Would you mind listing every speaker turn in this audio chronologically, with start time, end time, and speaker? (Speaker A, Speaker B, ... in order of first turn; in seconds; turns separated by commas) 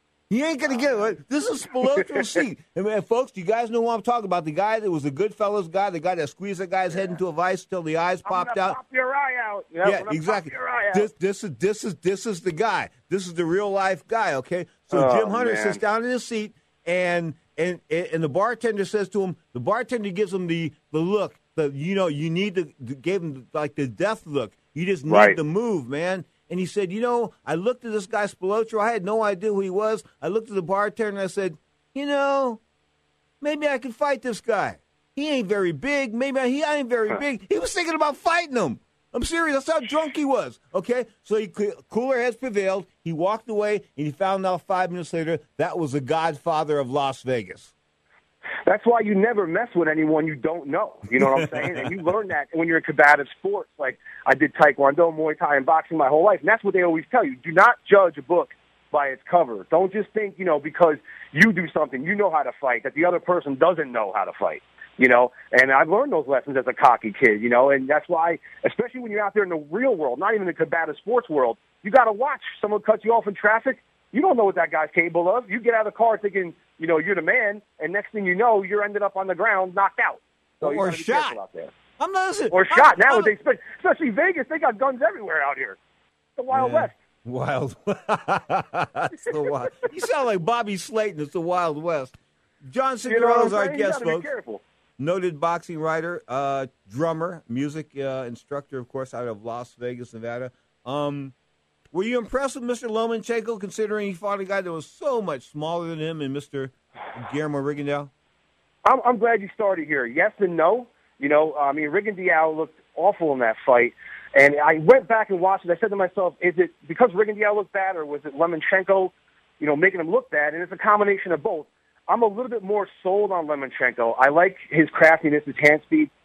Speaker A: 0.3-8.8, Speaker B: 0.7-1.1, Speaker B: 2.0-2.3, Speaker B: 6.9-7.2, Speaker B: 8.3-11.1, Speaker A: 9.8-32.6, Speaker B: 14.9-15.8, Speaker B: 25.1-25.4, Speaker A: 33.4-47.7, Speaker B: 48.7-81.7, Speaker A: 51.2-51.9, Speaker A: 80.6-81.4, Speaker A: 82.0-83.3, Speaker B: 82.5-85.8, Speaker B: 86.4-87.0, Speaker A: 86.5-94.3, Speaker B: 93.1-94.6, Speaker A: 95.0-101.3, Speaker A: 101.9-108.1, Speaker B: 108.8-126.1